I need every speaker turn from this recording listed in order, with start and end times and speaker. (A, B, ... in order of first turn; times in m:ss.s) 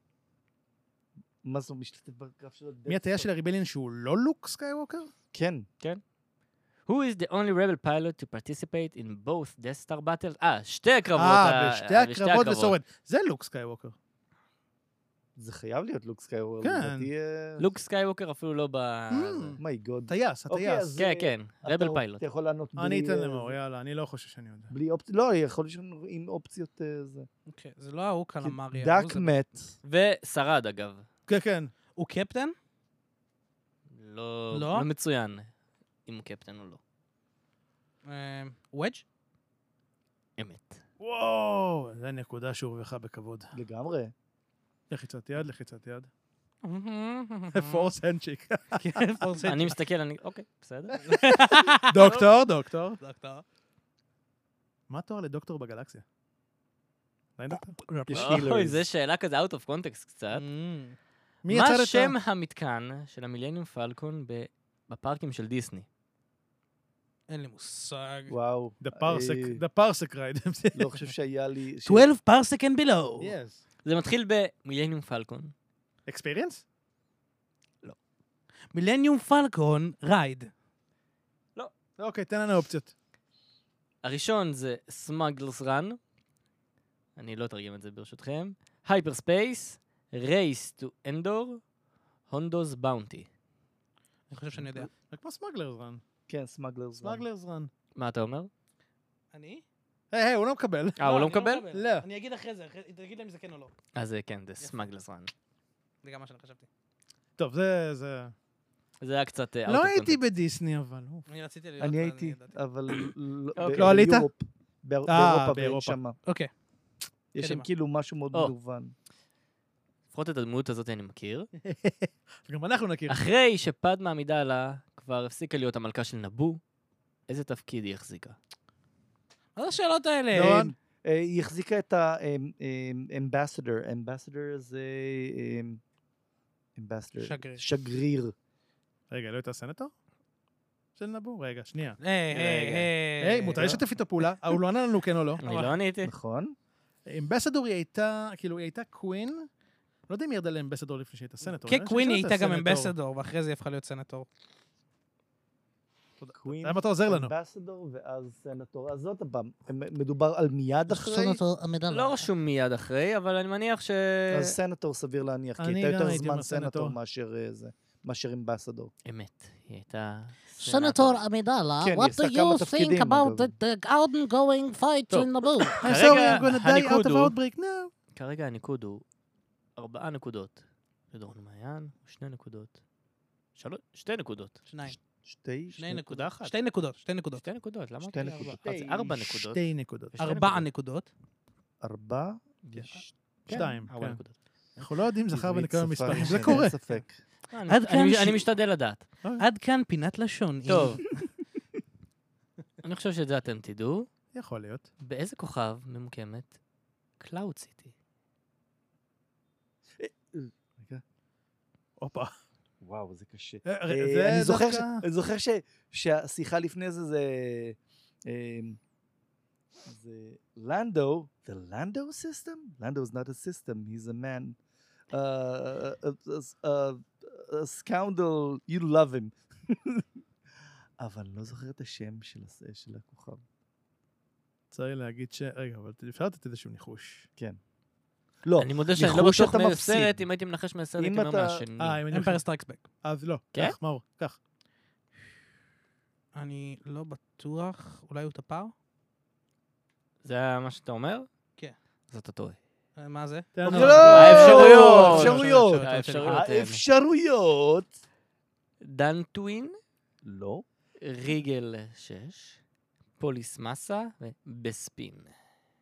0:01.4-0:03.3 A
0:02.9-0:05.1 B
0:05.3-0:05.7 A
0:06.8-0:12.8 C
0:11.2-0:13.9 B
0:15.4-0:17.6 A
0:16.6-0:17.1 B
0:17.6-0:19.6 C
0:19.1-0:20.9 B
0:19.6-0:23.5 A
0:21.0-0:22.2 C
0:22.8-0:24.7 B
0:24.7-0:27.3 A
0:27.5-0:29.3 D
0:28.4-0:29.7 A
0:29.8-0:31.1 C
0:31.3-0:31.7 B
0:32.0-0:32.5 D
0:33.9-0:35.5 C
0:34.5-0:34.9 D
0:36.0-0:36.8 C
0:38.0-0:39.0 D
0:40.4-0:40.8 C
0:41.0-0:43.5 B
0:43.5-0:44.1 A
0:44.9-0:46.1 B
0:46.6-0:47.9 D
0:47.5-0:49.6 B
0:48.7-0:49.7 D
0:49.4-0:51.0 C
0:51.0-0:52.2 D
0:51.1-0:53.0 B
0:53.0-0:53.4 D
0:54.9-0:56.0 B
0:57.4-0:58.3 B
0:58.1-0:58.8 A
0:58.1-1:00.4 C
1:00.3-1:01.0 D
1:01.4-1:02.1 B
1:01.5-1:05.8 C
1:07.3-1:08.3 D
1:08.3-1:09.6 A
1:08.8-1:11.0 B
1:10.7-1:12.1 A
1:11.8-1:13.3 D
1:13.2-1:13.6 B
1:13.8-1:15.5 C
1:16.0-1:16.6 B
1:18.7-1:20.5 D
1:22.0-1:22.9 B
1:24.0-1:26.0 C
1:27.2-1:31.6 C
1:32.3-1:33.3 C
1:34.3-1:34.9 D
1:34.9-1:36.0 B
1:36.3-1:37.2 A
1:37.0-1:37.7 B
1:37.9-1:38.5 C
1:39.3-1:39.6 D
1:40.1-1:41.0 B
1:41.0-1:41.6 C
1:41.0-1:43.7 D
1:41.7-1:42.0 B
1:43.9-1:45.3 C
1:44.6-1:44.9 D
1:46.0-1:46.7 D
1:47.4-1:48.3 B
1:49.0-1:50.2 C
1:49.6-1:51.2 B
1:51.3-1:52.6 D
1:51.8-1:56.2 A
1:53.6-1:54.0 C
1:53.8-1:54.3 B
1:55.0-1:56.0 B
1:57.3-1:58.9 A
1:57.4-1:57.7 D
2:00.1-2:01.5 C
2:01.6-2:03.2 B
2:03.1-2:06.6 C
2:07.3-2:08.4 C
2:09.6-2:10.7 D
2:10.3-2:10.7 B
2:10.3-2:15.8 A
2:16.8-2:18.3 A
2:17.2-2:17.6 D
2:19.1-2:19.9 B
2:21.0-2:25.4 B
2:22.0-2:23.7 D
2:23.5-2:23.8 A
2:25.4-2:26.1 C
2:26.0-2:26.5 A
2:27.0-2:29.5 B
2:30.1-2:32.9 B
2:31.5-2:34.2 D
2:36.2-2:37.3 B
2:36.3-2:41.4 A
2:40.9-2:42.3 E
2:41.9-2:44.6 C
2:44.3-2:48.9 A
2:45.6-2:47.0 B
2:49.0-2:51.2 C
2:50.6-2:55.8 E
2:51.8-2:53.5 A
2:55.1-2:57.3 C
2:55.8-2:57.9 B
2:58.1-2:59.0 C
2:59.8-3:02.8 C
3:03.6-3:04.6 C
3:04.6-3:05.0 D
3:05.2-3:06.0 A
3:05.8-3:07.4 D
3:06.1-3:06.5 B
3:07.3-3:10.6 C
3:08.0-3:09.2 A
3:09.2-3:10.4 B
3:10.2-3:11.1 D
3:11.8-3:13.6 A
3:13.4-3:14.4 C
3:13.5-3:14.2 B
3:14.8-3:16.8 B
3:15.3-3:17.2 A
3:16.1-3:16.6 D
3:17.5-3:19.0 C
3:17.7-3:18.4 D
3:19.4-3:21.1 D
3:20.6-3:21.0 C
3:22.8-3:24.1 C
3:24.3-3:24.9 B
3:25.0-3:26.5 C
3:27.2-3:27.9 C
3:30.0-3:31.0 A
3:32.0-3:32.3 B
3:32.8-3:38.8 A
3:33.6-3:35.0 B
3:39.8-3:44.6 A
3:45.1-3:50.0 A
3:51.0-3:53.4 A
3:54.7-3:57.2 B
3:58.4-4:00.2 A
3:58.6-4:02.0 C
4:01.0-4:01.6 A
4:01.8-4:02.4 B
4:02.1-4:02.8 D
4:03.0-4:04.4 B
4:06.3-4:08.7 D
4:10.2-4:11.3 C
4:12.1-4:12.6 C
4:13.0-4:16.4 D
4:13.5-4:15.5 B
4:13.6-4:17.9 A
4:13.9-4:16.8 C
4:18.8-4:19.8 C
4:20.2-4:20.6 A
4:21.0-4:22.6 C
4:23.2-4:25.3 C